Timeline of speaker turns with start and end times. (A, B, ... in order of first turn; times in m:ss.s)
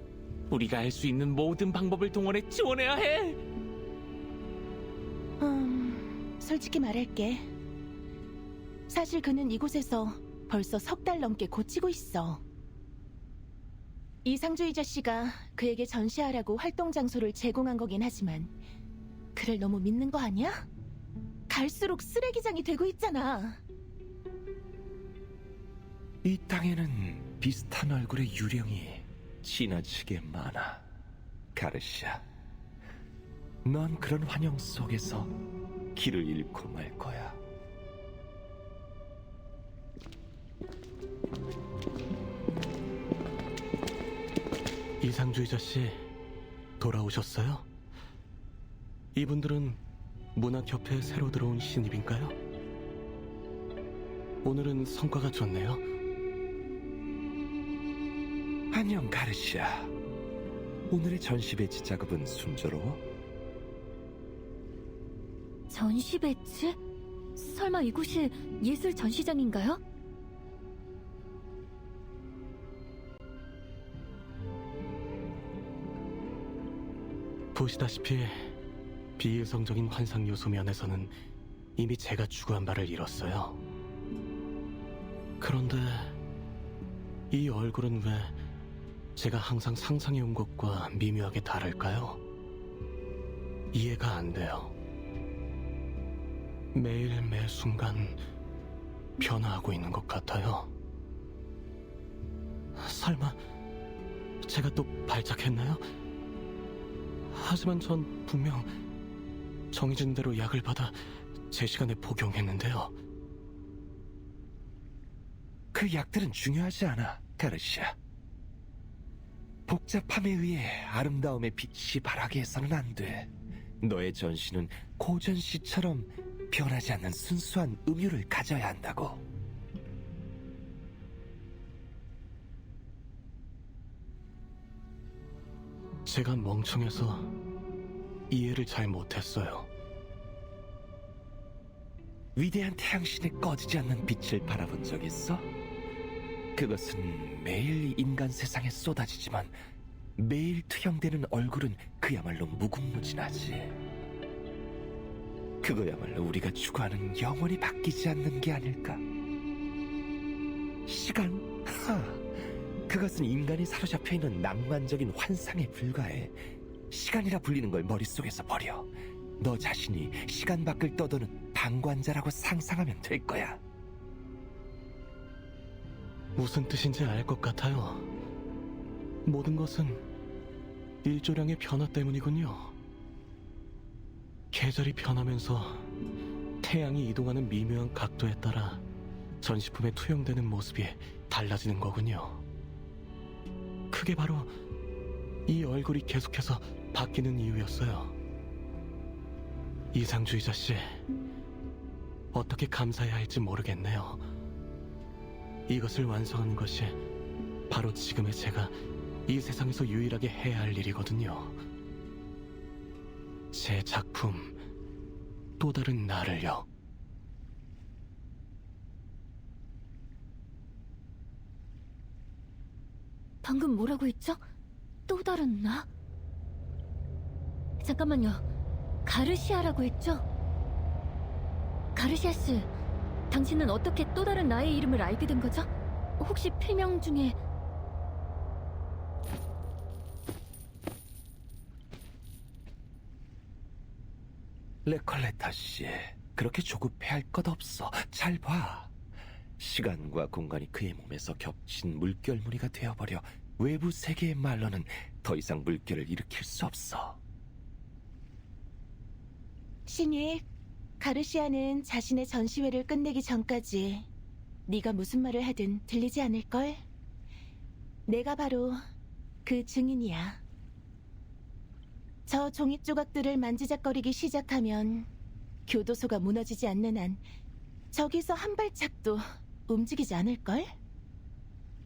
0:00.5-0:03.4 A
0:05.4-0:07.5 B
0:08.9-0:12.4 B
0:14.2-0:18.5 B
0:19.4-0:20.7 B
0:21.5-0:23.6 B
0:26.2-0:30.8 C
0:31.6-0:32.2 C
0:33.6-0:35.3 C
0:36.0-0:37.4 C
0:45.0-0:46.1 D
0:46.8-0:47.7 D
0:49.1-0:49.8 D
0:50.4-0:52.4 D
0:54.4-0:55.8 D
0:58.7-0:59.9 C
1:00.9-1:03.0 C
1:05.7-1:06.8 E
1:07.4-1:09.8 E
1:17.5-1:18.5 D
1:19.2-1:21.1 D
1:21.8-1:23.6 D
1:25.4-1:26.2 D
1:27.3-1:28.4 D
1:29.2-1:32.2 D
1:33.7-1:34.7 D
1:36.7-1:38.2 D
1:39.2-1:40.7 D
1:42.8-1:43.4 D
1:44.4-1:45.8 D
1:47.3-1:48.7 D
1:49.7-1:52.9 D
1:55.7-1:58.0 C
1:59.7-2:09.2 C
2:16.0-2:17.3 D
2:18.3-2:19.7 D
2:22.4-2:25.5 C
2:26.6-2:29.6 C
2:30.2-2:33.8 C
2:35.6-2:39.0 C
2:40.9-2:42.3 C
2:42.9-2:46.4 C
2:46.9-2:53.6 C
2:56.4-2:58.1 D
2:59.2-3:00.0 D
3:01.0-3:02.7 D
3:04.5-3:05.9 D
3:06.6-3:08.8 D
3:09.4-3:12.4 D
3:13.9-3:14.5 D
3:15.5-3:18.2 D
3:19.9-3:21.0 D
3:22.3-3:24.3 D
3:25.7-3:27.0 D
3:27.7-3:28.7 D
3:29.3-3:31.6 D
3:33.5-3:34.6 D
3:35.6-3:36.7 D
3:43.4-3:44.4 E
3:45.1-3:45.9 E
3:47.8-3:48.4 E
3:49.0-3:50.2 E
3:52.0-3:52.7 E
3:53.3-3:57.4 E
4:04.8-4:08.9 C
4:09.6-4:17.2 C
4:19.9-4:20.5 B
4:21.0-4:24.1 B
4:24.7-4:26.8 B
4:28.1-4:28.8 B
4:29.4-4:30.4 B
4:32.3-4:35.1 B
4:35.7-4:37.2 B
4:37.9-4:40.7 B